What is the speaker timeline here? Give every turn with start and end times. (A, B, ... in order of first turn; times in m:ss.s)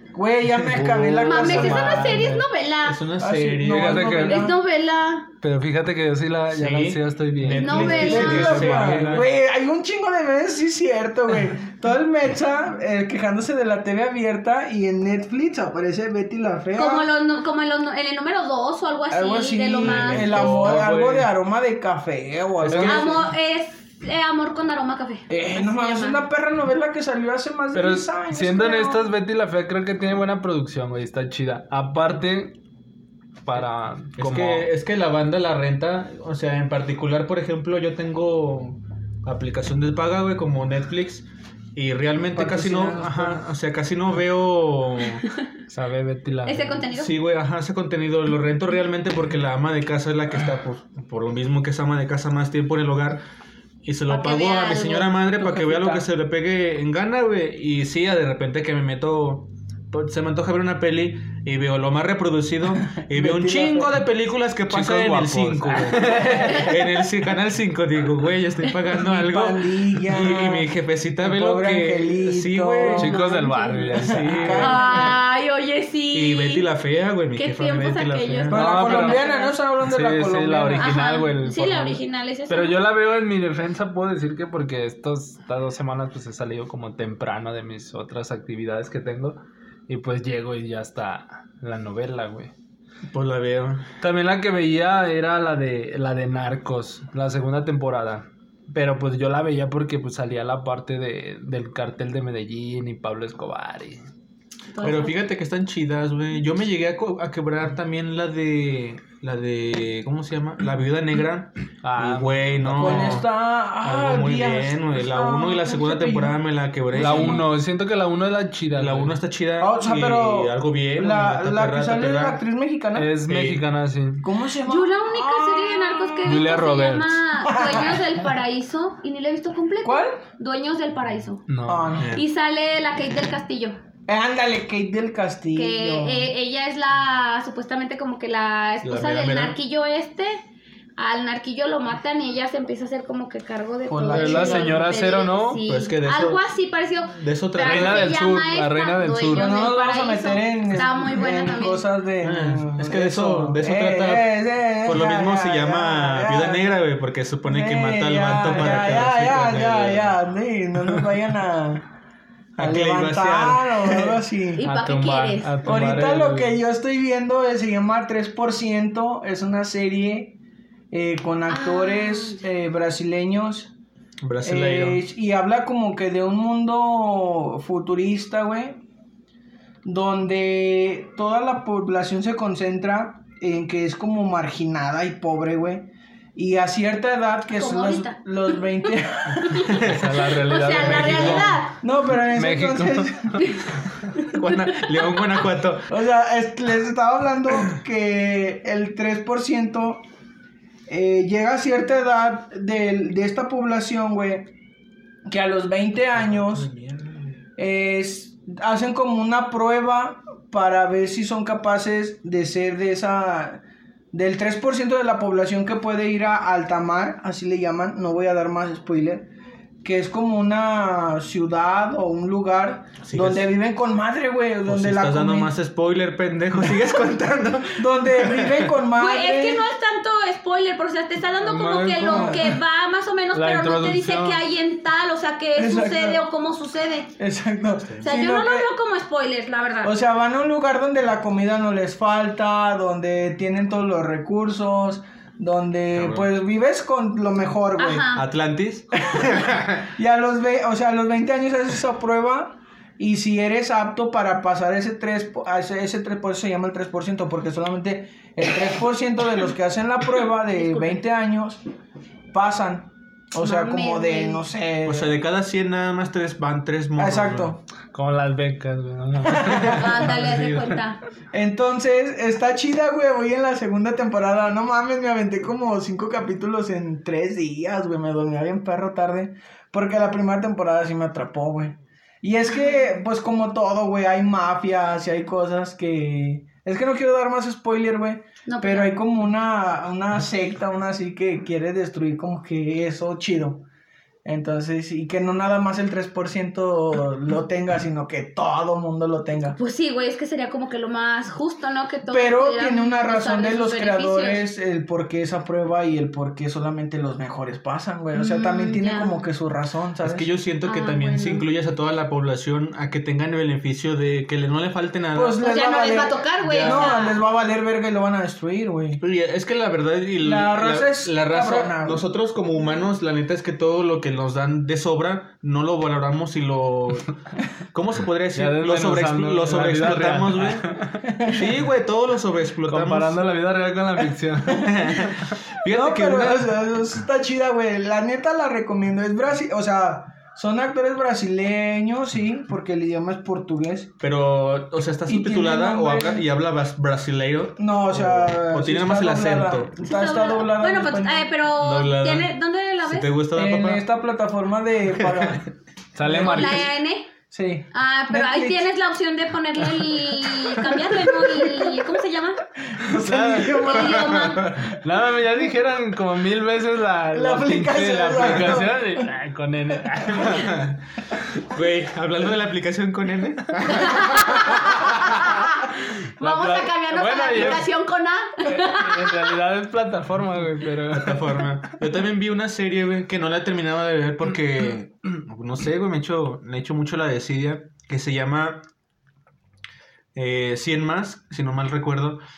0:00.1-0:02.4 A
0:00.7-0:02.4 B
0:01.2-0:03.0 C
0:02.8-0:04.1 D
0:03.2-0:04.6 A
0:03.6-0:04.6 B
0:04.2-0:05.3 C
0:05.4-0:09.2 B
0:06.5-0:09.3 D
0:07.6-0:08.6 C
0:07.8-0:17.1 A
0:16.7-0:20.7 C
0:19.1-0:23.2 A
0:19.8-0:21.2 D
0:20.4-0:21.3 B
0:22.6-0:23.1 B
0:22.7-0:23.0 D
0:22.9-0:26.2 C
0:25.3-0:29.1 A
0:27.7-0:32.6 B
0:33.4-0:34.7 B
0:34.2-0:45.2 D
0:42.3-0:43.5 A
0:45.7-0:46.9 B
0:46.5-0:47.1 C
0:46.9-0:53.2 D
0:53.8-1:13.1 D
0:54.1-0:55.2 C
0:55.5-0:56.0 A
1:03.0-1:04.0 A
1:04.7-1:06.7 B
1:06.2-1:06.4 A
1:08.9-1:15.2 A
1:12.9-1:13.9 C
1:13.0-1:14.8 B
1:14.0-1:14.8 D
1:14.6-1:16.7 C
1:16.1-1:18.6 D
1:17.4-1:19.5 C
1:18.5-1:21.0 A
1:18.5-1:32.5 B
1:20.8-1:22.8 C
1:33.1-1:33.9 D
1:34.0-1:44.0 B
1:44.7-1:45.2 C
1:44.8-1:53.3 D
1:51.8-1:53.2 B
1:52.7-1:56.4 A
1:53.8-1:57.4 D
1:56.9-1:57.5 A
1:56.9-1:59.2 B
1:58.8-2:02.4 D
1:59.6-2:03.1 A
2:03.0-2:04.3 B
2:03.3-2:03.6 D
2:04.2-2:06.5 A
2:04.7-2:11.4 C
2:06.2-2:07.2 B
2:07.4-2:08.0 A
2:09.8-2:10.2 A
2:11.5-2:12.0 B
2:11.7-2:12.1 A
2:12.0-2:12.2 D
2:12.1-2:13.8 C
2:14.1-2:16.3 A
2:15.6-2:20.4 C
2:18.8-2:19.6 D
2:21.0-2:31.9 C
2:23.8-2:24.8 A
2:24.1-2:25.6 B
2:25.6-2:26.5 D
2:27.1-2:28.2 D
2:27.6-2:29.6 B
2:29.3-2:36.7 A
2:32.2-2:40.2 D
2:37.4-2:41.9 A
2:42.6-2:44.6 A
2:42.6-2:44.2 D
2:44.6-2:45.6 C
2:44.6-2:46.6 B
2:45.6-2:50.4 A
2:50.9-2:53.7 A
2:51.5-2:52.4 C
2:54.2-2:55.0 D
2:54.4-2:58.8 A
2:59.8-3:09.6 A
3:07.6-3:11.8 C
3:09.6-3:10.1 D
3:09.8-3:13.4 B
3:11.3-3:13.4 A
3:14.3-3:15.2 C
3:14.3-3:15.9 D
3:15.9-3:20.0 A
3:20.9-3:24.5 A
3:25.3-3:26.7 A
3:26.2-3:27.4 D
3:27.6-3:39.3 A
3:39.8-3:45.5 A
3:43.0-3:43.4 D
3:44.7-3:48.8 D
3:47.8-3:49.7 A
3:49.0-3:57.1 C
3:51.4-3:52.5 B
3:52.1-3:52.6 A
3:53.3-3:54.4 B
3:55.6-3:56.2 A
3:57.2-3:58.7 A
3:58.0-3:59.9 C
3:59.8-4:08.1 A
4:05.9-4:06.3 D
4:07.8-4:08.3 C
4:08.2-4:09.9 D
4:09.0-4:21.6 A
4:20.5-4:20.9 C
4:22.3-4:25.2 A
4:23.4-4:24.4 C
4:24.8-4:27.5 D
4:27.0-4:27.6 A
4:27.9-4:30.8 B
4:29.2-4:29.8 A
4:29.7-4:31.0 C
4:31.3-4:53.6 A
4:48.5-4:48.9 C
4:54.2-4:59.6 A
4:59.6-5:04.4 C
5:02.1-5:10.3 A
5:08.2-5:09.2 C
5:10.0-5:15.4 D
5:10.6-5:11.5 C
5:15.1-5:19.0 A
5:15.4-5:17.2 C
5:16.4-5:17.0 D
5:19.0-5:27.2 D
5:20.2-5:22.0 A
5:27.7-5:33.2 D
5:28.3-5:31.0 B
5:31.0-5:31.5 A
5:32.7-5:34.7 B
5:34.5-5:36.4 D
5:34.8-5:35.1 A
5:35.7-5:43.9 A
5:44.0-5:49.7 D
5:45.1-5:46.2 A
5:47.6-5:51.3 A
5:49.8-5:53.1 C
5:51.5-5:53.8 D
5:53.3-5:56.7 A
5:54.9-5:55.4 D
5:56.0-5:56.7 B
5:56.1-5:57.1 C
5:57.3-5:58.7 A
5:57.7-6:02.4 C
6:00.4-6:01.8 A
6:02.7-6:04.4 A
6:02.8-6:04.8 D
6:03.6-6:04.5 C
6:04.7-6:10.5 B
6:07.1-6:09.1 A
6:08.2-6:08.6 D
6:10.1-6:10.8 D
6:11.4-6:15.3 D
6:13.8-6:15.7 C
6:16.2-6:17.7 B
6:16.2-6:19.2 C
6:18.4-6:21.5 B
6:20.9-6:28.6 D
6:30.2-6:32.2 D